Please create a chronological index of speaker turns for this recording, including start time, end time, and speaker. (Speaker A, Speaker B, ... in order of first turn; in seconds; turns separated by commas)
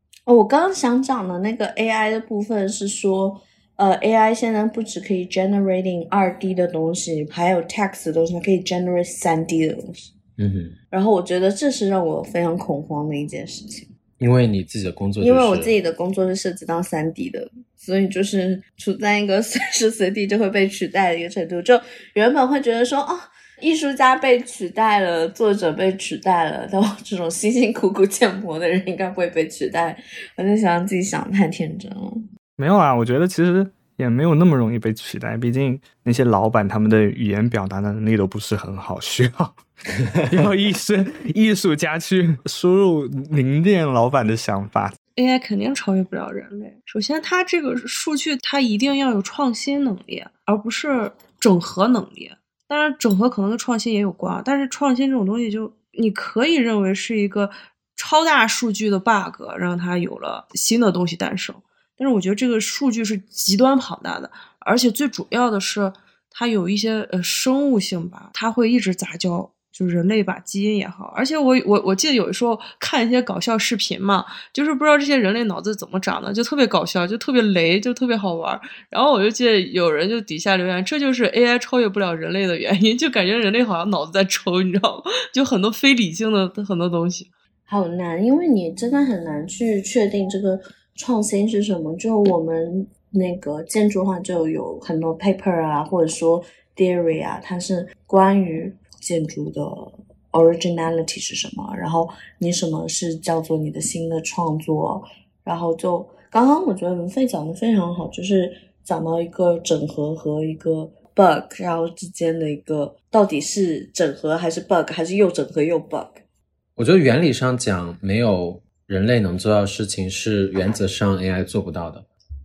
Speaker A: 0.3-10.1, Speaker B: 10.4-10.8, Speaker A: 10.9-13.9, Speaker B: 14.2-15.7, Speaker A: 15.2-32.2, Speaker C: 32.6-45.0, Speaker D: 45.2-87.3, Speaker A: 87.7-116.2, Speaker B: 116.8-122.1